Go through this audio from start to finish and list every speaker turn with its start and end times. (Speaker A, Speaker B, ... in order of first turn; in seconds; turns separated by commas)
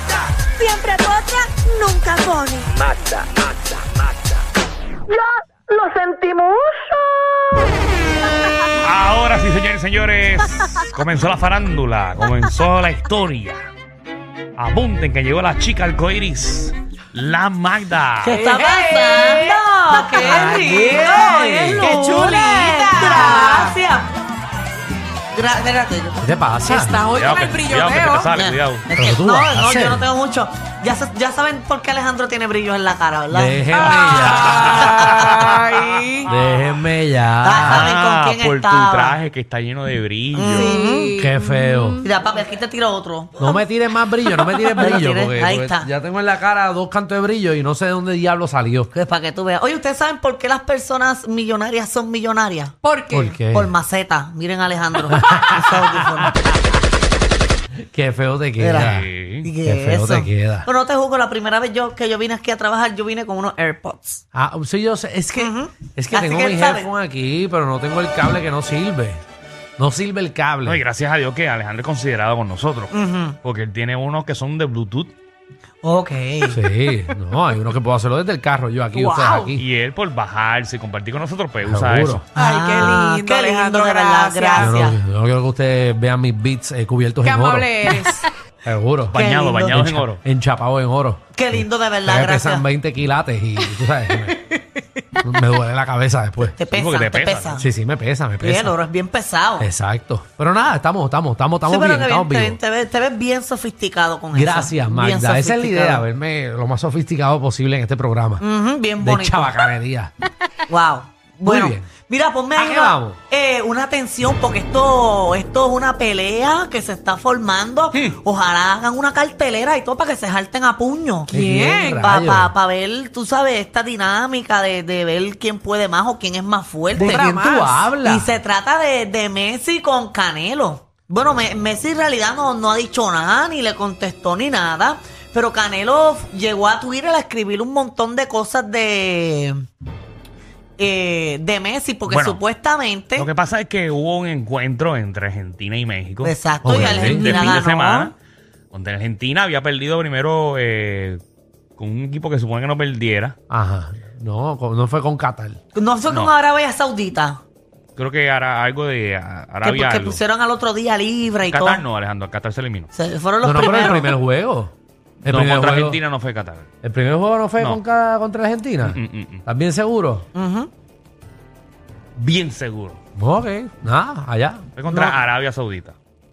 Speaker A: 0.4-3.2, Speaker A: 5.1-6.5, Speaker B: 8.8-13.6, Speaker B: 14.6-18.4, Speaker A: 18.2-24.1, Speaker C: 18.3-19.5, Speaker D: 20.1-21.9, Speaker C: 21.8-23.8, Speaker A: 25.3-26.2, Speaker D: 26.2-27.0, Speaker C: 26.6-28.3, Speaker B: 27.1-28.9, Speaker A: 28.3-35.5, Speaker D: 28.9-30.1, Speaker D: 33.3-35.0, Speaker C: 33.8-36.3, Speaker B: 34.2-36.7, Speaker D: 36.3-37.9, Speaker A: 37.4-39.2, Speaker B: 37.6-40.7, Speaker A: 40.4-41.1, Speaker C: 40.6-42.0, Speaker D: 41.2-42.0, Speaker A: 42.0-43.6, Speaker D: 43.4-48.9, Speaker A: 44.7-45.9, Speaker A: 48.9-52.7, Speaker C: 52.8-53.4, Speaker D: 53.1-53.7, Speaker A: 53.5-56.5, Speaker D: 55.2-56.7, Speaker D: 57.8-59.1, Speaker A: 58.6-64.2, Speaker B: 58.7-59.5, Speaker D: 59.6-60.7, Speaker D: 64.3-69.2, Speaker A: 65.3-66.9, Speaker D: 69.8-70.8, Speaker B: 70.6-72.9, Speaker A: 72.9-73.4, Speaker B: 73.4-75.1, Speaker A: 75.8-76.6, Speaker D: 76.5-79.6, Speaker C: 78.9-79.5, Speaker B: 79.5-82.2, Speaker D: 81.6-82.2, Speaker A: 82.3-85.0, Speaker C: 82.4-84.7, Speaker D: 84.6-87.9, Speaker C: 87.2-88.2, Speaker D: 88.6-94.4, Speaker B: 89.1-90.2, Speaker A: 89.1-89.8, Speaker A: 91.3-92.7, Speaker D: 95.2-96.5, Speaker A: 96.4-97.7, Speaker B: 96.7-97.6, Speaker D: 97.6-98.7, Speaker A: 98.4-99.7, Speaker D: 99.6-102.6, Speaker A: 101.6-106.0, Speaker D: 104.3-108.4, Speaker A: 108.4-109.6, Speaker D: 109.0-110.1, Speaker A: 110.7-121.3, Speaker D: 111.4-111.9, Speaker D: 112.6-113.2, Speaker B: 117.9-118.2, Speaker D: 121.3-122.5, Speaker C: 121.5-122.1, Speaker A: 122.0-127.3, Speaker D: 127.0-128.3, Speaker C: 127.0-127.9, Speaker A: 128.0-139.6, Speaker A: 140.8-143.3, Speaker B: 142.1-142.4, Speaker B: 143.2-148.1, Speaker A: 146.2-148.1, Speaker D: 146.6-147.6, Speaker B: 148.7-151.2, Speaker B: 151.8-153.3, Speaker D: 153.5-155.6, Speaker A: 155.7-157.4, Speaker B: 156.1-156.3, Speaker B: 157.9-160.2, Speaker A: 159.6-161.8, Speaker B: 161.4-162.9, Speaker A: 162.9-164.2, Speaker D: 163.4-164.7, Speaker D: 165.2-166.0, Speaker B: 165.3-166.7, Speaker D: 166.8-170.2, Speaker B: 168.8-169.4, Speaker A: 170.3-170.7, Speaker B: 172.2-173.0, Speaker D: 173.2-174.7, Speaker B: 174.8-175.9, Speaker A: 174.9-175.2